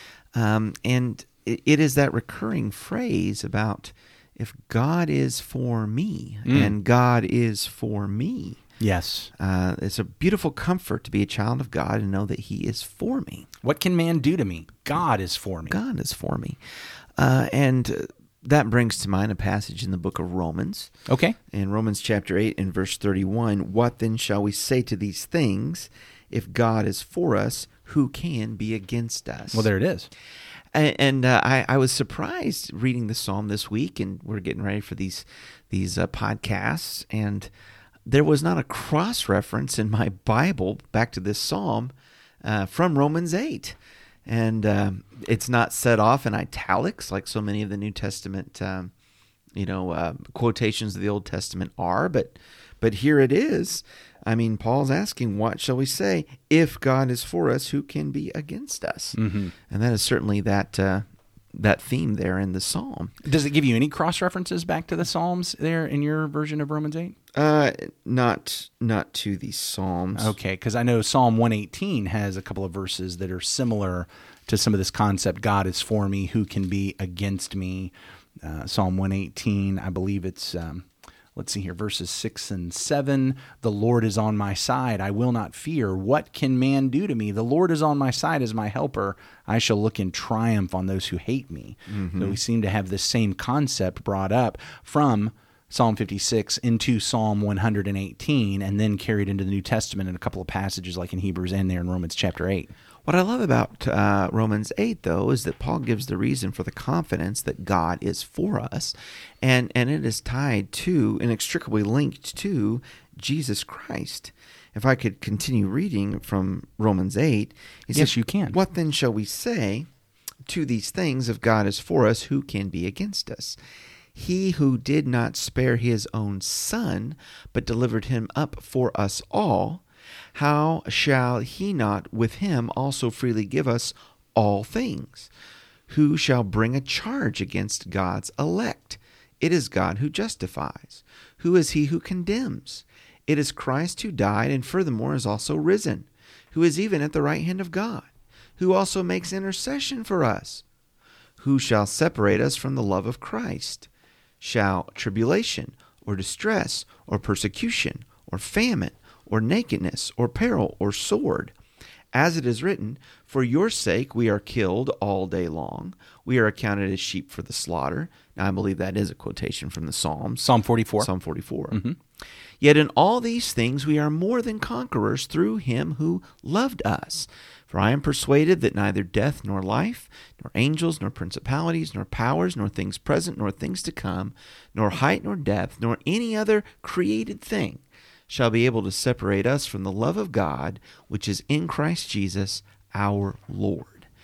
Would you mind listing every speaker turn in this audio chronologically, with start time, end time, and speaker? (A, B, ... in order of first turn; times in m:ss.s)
0:00.3-0:08.6 A
0:06.5-0:06.8 B
0:08.8-0:09.3 B
0:09.4-0:13.5 A
0:13.6-0:15.8 B
0:15.7-0:16.6 A
0:17.2-0:20.9 A
0:21.1-0:21.4 B
0:21.5-0:29.7 A
0:29.5-0:30.1 B
0:30.7-0:37.5 A
0:38.1-0:48.9 A
0:49.6-1:03.1 A
0:59.1-0:59.5 B
1:03.2-1:07.1 B
1:07.3-1:10.3 A
1:10.2-1:42.7 B
1:31.9-1:32.4 A
1:43.1-1:59.9 A
1:57.9-1:58.6 B
2:00.4-2:03.6 A
2:04.1-2:15.3 A
2:15.9-2:30.6 A
2:31.4-2:33.9 A
2:34.4-2:41.5 A
2:42.1-2:51.8 A
2:50.4-2:51.1 B
2:51.7-2:52.0 B
2:52.6-3:14.1 A